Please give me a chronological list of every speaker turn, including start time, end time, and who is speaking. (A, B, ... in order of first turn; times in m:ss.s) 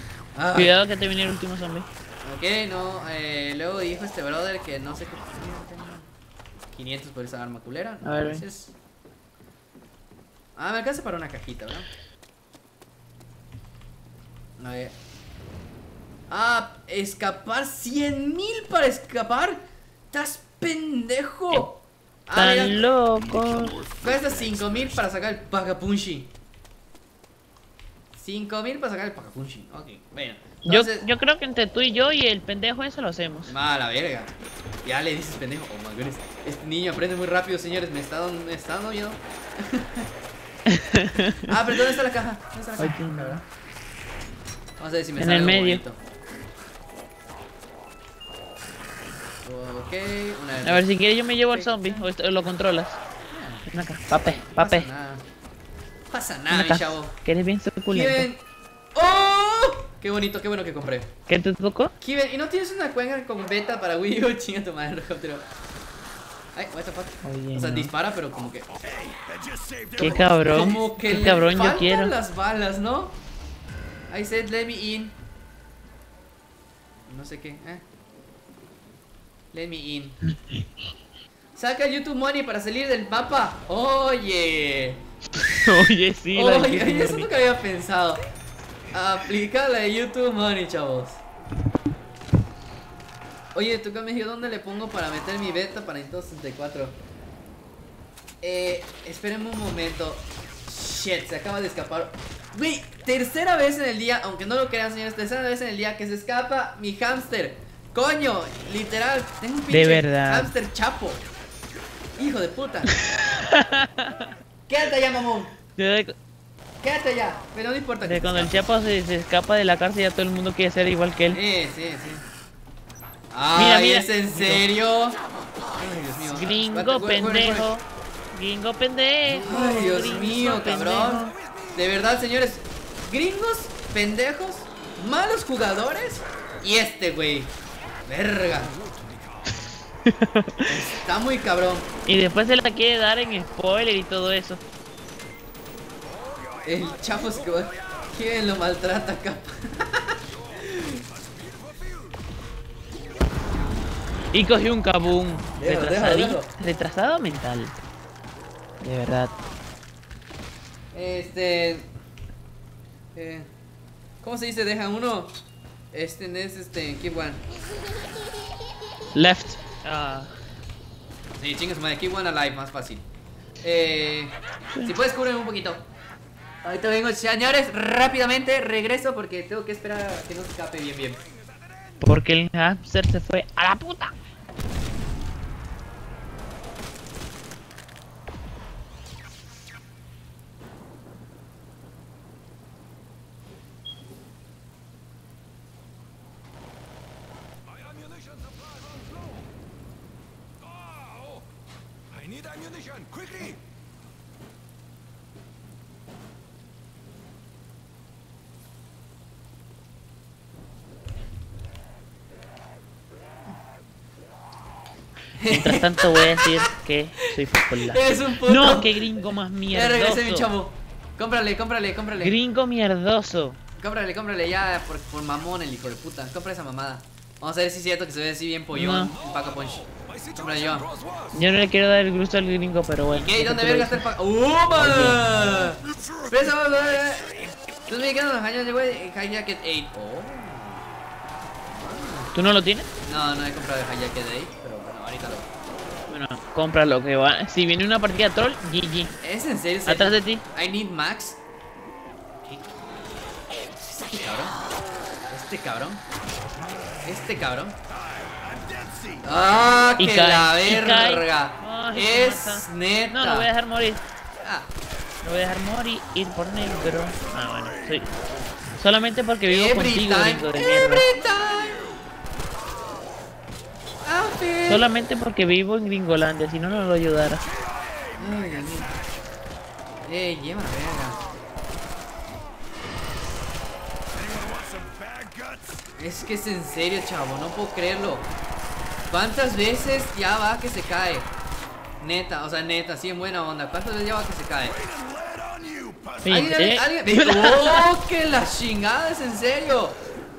0:00.3-0:00.8 A
0:00.5-0:01.9 B
0:02.2-0:06.1 A
0:06.7-0:08.7 A
0:08.0-0:08.4 B
0:10.5-0:11.9 A
0:14.6-0:14.9 A
0:16.3-0:22.8 A
0:22.3-0:23.8 B
0:23.1-0:25.0 C
0:24.0-0:26.3 A
0:28.1-0:31.1 A
0:30.6-0:33.5 B
0:33.5-0:40.1 A
0:40.7-0:41.6 B
0:41.4-0:43.4 A
0:42.8-0:43.4 B
0:44.8-0:46.0 A
0:45.2-0:45.8 B
0:49.4-0:50.9 A
0:50.6-0:53.0 B
0:51.5-0:52.1 A
0:53.3-0:55.2 A
0:53.6-0:54.9 B
0:56.1-0:57.2 A
0:56.5-0:58.3 B
0:57.9-1:01.2 A
1:01.2-1:01.9 B
1:02.0-1:05.4 A
1:06.5-1:08.7 A
1:07.2-1:07.9 B
1:08.8-1:10.7 C
1:10.0-1:12.1 B
1:10.4-1:13.2 A
1:14.1-1:15.2 A
1:17.1-1:17.8 A
1:19.5-1:20.2 A
1:21.5-1:25.0 A
1:25.3-1:27.3 B
1:26.3-1:28.2 A
1:28.9-1:31.2 A
1:33.5-1:37.0 A
1:38.4-1:51.2 A
1:49.7-1:50.5 B
1:52.2-1:53.0 A
1:53.4-1:54.2 B
1:54.7-1:55.6 A
1:55.7-1:56.1 B
1:56.8-1:58.7 A
1:58.0-2:01.4 B
2:01.3-2:02.2 A
2:03.3-2:07.7 A
2:03.5-2:04.6 B
2:06.2-2:11.3 B
2:09.4-2:17.5 A
2:11.1-2:11.8 C
2:18.0-2:18.7 A
2:18.7-2:19.6 C
2:20.0-2:20.7 B
2:20.6-2:21.9 A
2:22.0-2:24.6 B
2:26.0-2:28.1 C
2:26.6-2:31.0 A
2:30.3-2:32.2 C
2:34.3-2:37.8 B
2:35.6-2:36.5 A
2:38.8-2:39.4 B
2:40.9-2:41.9 A
2:43.1-2:43.5 A
2:44.2-2:45.4 A
2:45.9-2:47.4 A
2:49.1-2:50.3 B
2:51.4-2:53.0 A
2:53.6-2:55.8 A
2:54.7-2:55.0 B
2:56.6-3:01.2 A
3:01.3-3:02.0 C
3:02.0-3:04.1 B
3:17.7-3:19.4 C
3:20.6-3:21.4 C
3:22.1-3:23.6 C
3:35.3-3:36.7 A
3:35.5-3:40.5 B
3:37.2-3:39.2 A
3:39.7-3:42.4 A
3:42.2-3:43.6 B
3:43.8-3:50.9 A
3:48.7-3:49.1 B
3:49.1-3:51.4 C
3:51.3-3:54.0 B
3:53.1-4:00.8 A
3:54.7-3:55.5 B
3:55.5-3:57.6 C
4:01.7-4:02.3 A
4:02.3-4:02.9 B
4:03.0-4:05.5 A
4:06.1-4:09.1 B
4:09.2-4:11.4 A
4:09.8-4:10.4 B
4:14.1-4:14.6 A
4:15.3-4:16.0 A
4:17.0-4:17.8 A
4:18.1-4:19.2 C
4:19.2-4:23.5 A
4:20.0-4:24.0 B
4:24.4-4:24.7 A
4:25.2-4:28.1 B
4:26.6-4:28.0 C
4:28.8-4:31.1 B
4:29.5-4:31.9 A
4:34.0-4:34.9 A
4:34.6-4:37.4 B
4:37.5-4:39.0 C
4:38.2-4:39.0 A
4:40.0-4:41.2 A
4:44.1-4:45.8 C
4:46.0-4:48.3 A
4:49.1-4:51.3 A
4:52.0-4:54.8 A
4:54.8-4:56.3 C
4:56.2-4:57.9 B
4:56.3-5:00.0 A